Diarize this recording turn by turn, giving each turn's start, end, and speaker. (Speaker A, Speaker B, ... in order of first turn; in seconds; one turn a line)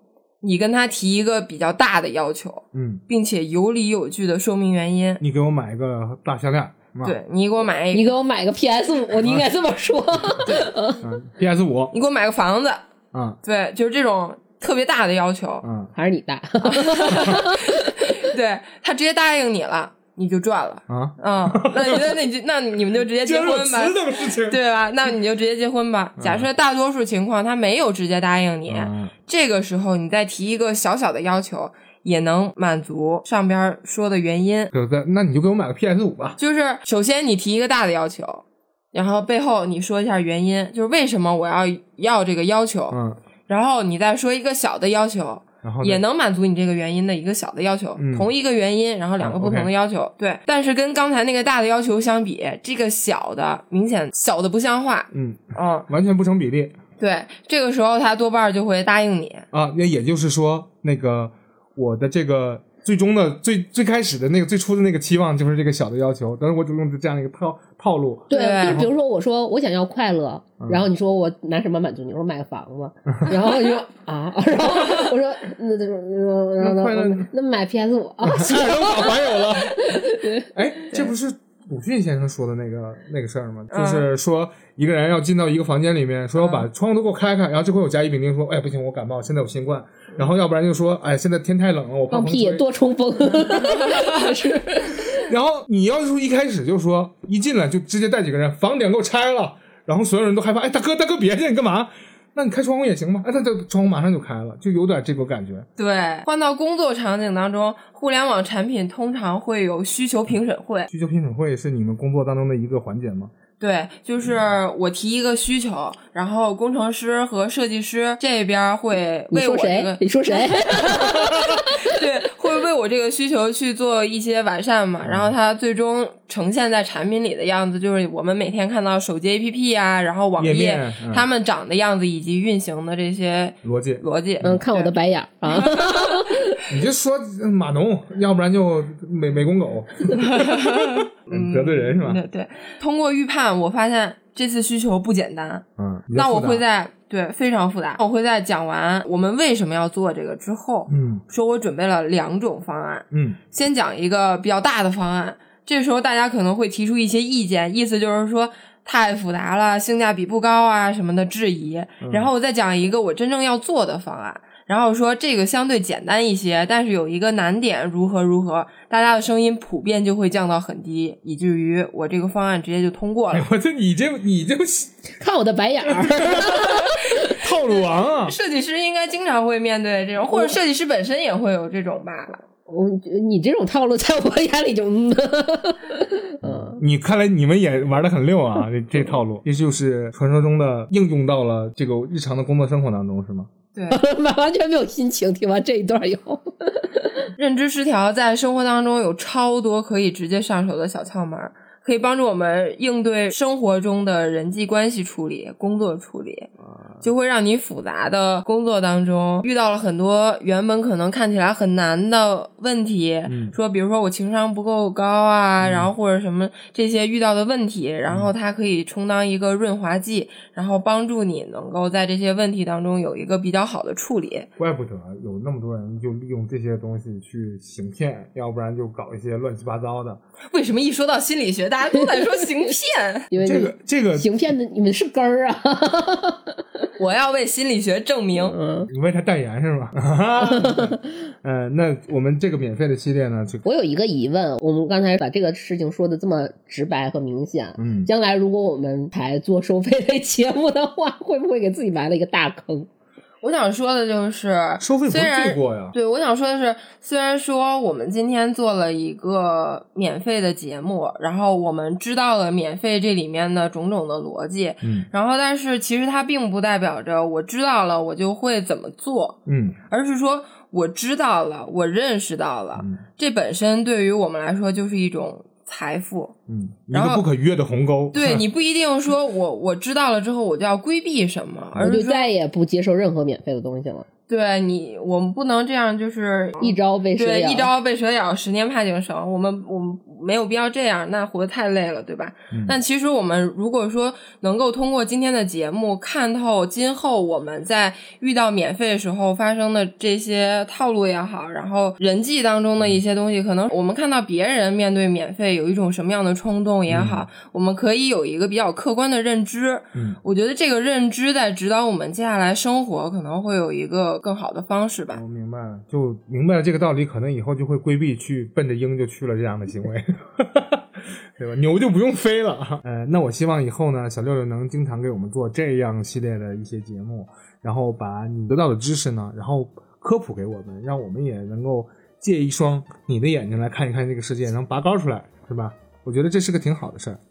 Speaker A: 0.4-5.2
Speaker B: 2.7-3.0
Speaker B: 5.2-7.2
Speaker A: 7.0-8.1
Speaker C: 7.9-11.1
Speaker B: 9.2-9.5
Speaker A: 10.4-10.7
Speaker B: 11.0-11.9
Speaker A: 11.9-12.8
Speaker B: 13.1-13.4
Speaker A: 13.4-15.7
Speaker B: 15.6-15.9
Speaker C: 15.9-18.0
Speaker A: 16.6-34.7
Speaker B: 20.9-22.2
Speaker B: 23.2-24.6
Speaker B: 26.2-26.5
Speaker B: 28.7-29.1
Speaker B: 34.7-36.4
Speaker A: 36.4-55.9
Speaker B: 42.9-43.2
Speaker B: 45.6-46.0
Speaker B: 48.0-48.3
Speaker B: 49.2-49.7
Speaker B: 55.1-56.8
Speaker A: 57.0-59.5
Speaker B: 59.5-68.9
Speaker A: 68.3-68.9
Speaker C: 68.3-80.5
Speaker B: 70.6-70.9
Speaker A: 74.8-75.1
Speaker B: 76.6-77.3
Speaker B: 78.2-92.7
Speaker A: 83.7-84.1
Speaker A: 86.4-86.7
Speaker C: 92.1-95.3
Speaker B: 93.5-94.0
Speaker A: 93.5-94.3
Speaker B: 95.2-105.7
Speaker A: 105.8-110.9
Speaker B: 110.9-113.3
Speaker A: 113.6-136.6
Speaker C: 119.3-121.9
Speaker B: 121.2-121.6
Speaker B: 125.0-125.3
Speaker B: 130.4-131.3
Speaker B: 133.6-134.6
Speaker C: 134.4-136.6
Speaker B: 136.7-142.2
Speaker A: 140.2-173.5
Speaker B: 145.8-146.6
Speaker B: 150.9-151.2
Speaker B: 153.1-153.4
Speaker B: 162.0-162.3
Speaker B: 173.3-175.0
Speaker C: 175.2-177.4
Speaker B: 175.9-178.3
Speaker A: 177.3-182.4
Speaker C: 182.7-186.8
Speaker B: 186.4-193.5
Speaker A: 193.8-194.0
Speaker C: 193.9-197.3
Speaker A: 197.4-224.5
Speaker B: 206.8-207.0
Speaker B: 213.3-213.6
Speaker B: 215.6-215.9
Speaker B: 224.6-230.2
Speaker A: 230.5-233.3
Speaker C: 232.0-232.5
Speaker C: 233.3-236.6
Speaker B: 233.4-234.3
Speaker A: 237.0-238.6
Speaker C: 238.5-238.9
Speaker B: 238.9-243.6
Speaker C: 240.5-241.0
Speaker C: 243.6-252.9
Speaker B: 247.8-248.1
Speaker A: 253.4-276.4
Speaker B: 254.8-255.9
Speaker B: 264.8-265.1
Speaker B: 269.5-269.8
Speaker B: 272.8-273.0
Speaker B: 276.5-278.4
Speaker A: 276.9-277.2
Speaker A: 278.1-282.3
Speaker C: 281.8-284.1
Speaker A: 284.3-315.2
Speaker C: 286.6-287.7
Speaker B: 292.5-292.8
Speaker B: 306.9-307.2
Speaker B: 315.1-337.2